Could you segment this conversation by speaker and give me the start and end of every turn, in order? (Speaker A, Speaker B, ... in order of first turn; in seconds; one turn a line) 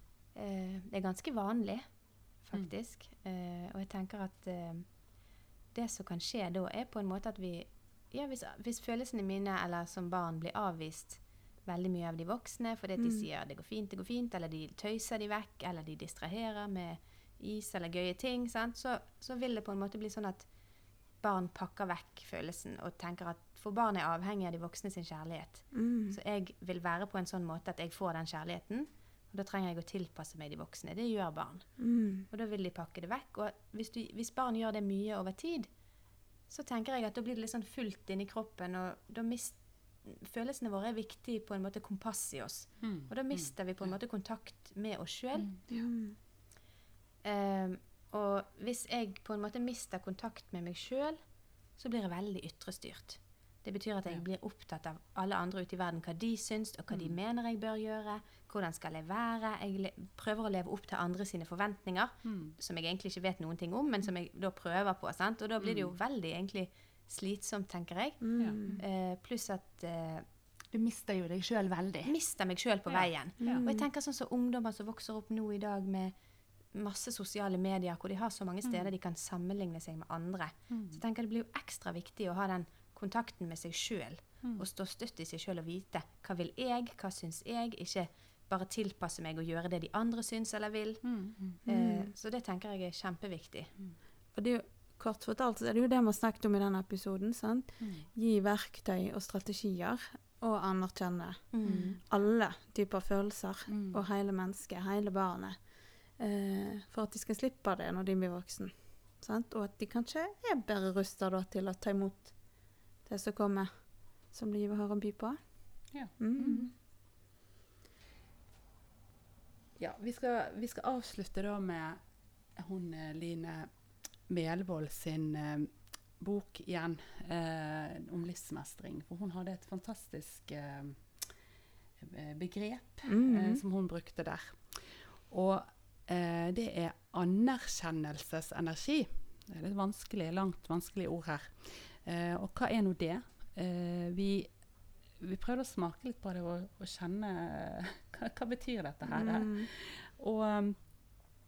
Speaker A: 0.3-20.5
Speaker B: 13.0-13.3
Speaker A: 21.1-35.7
Speaker B: 25.7-26.2
Speaker B: 31.8-32.3
Speaker A: 36.5-45.5
Speaker C: 42.8-43.9
Speaker D: 45.4-45.9
Speaker B: 45.7-46.2
Speaker A: 47.2-51.2
Speaker A: 51.7-70.2
Speaker C: 56.9-57.1
Speaker C: 62.2-62.5
Speaker C: 65.6-65.9
Speaker B: 68.2-68.8
Speaker D: 70.7-72.1
Speaker A: 72.0-93.7
Speaker C: 72.9-73.6
Speaker B: 73.4-73.9
Speaker C: 78.6-78.9
Speaker C: 80.7-81.0
Speaker C: 91.1-91.4
Speaker B: 91.7-92.1
Speaker B: 94.3-116.7
Speaker D: 97.8-98.0
Speaker A: 101.5-102.0
Speaker D: 101.6-102.0
Speaker D: 103.7-104.0
Speaker C: 115.9-116.3
Speaker D: 116.4-116.7
Speaker C: 119.8-122.0
Speaker C: 122.5-131.3
Speaker C: 132.0-151.1
Speaker B: 133.1-133.6
Speaker B: 149.1-149.7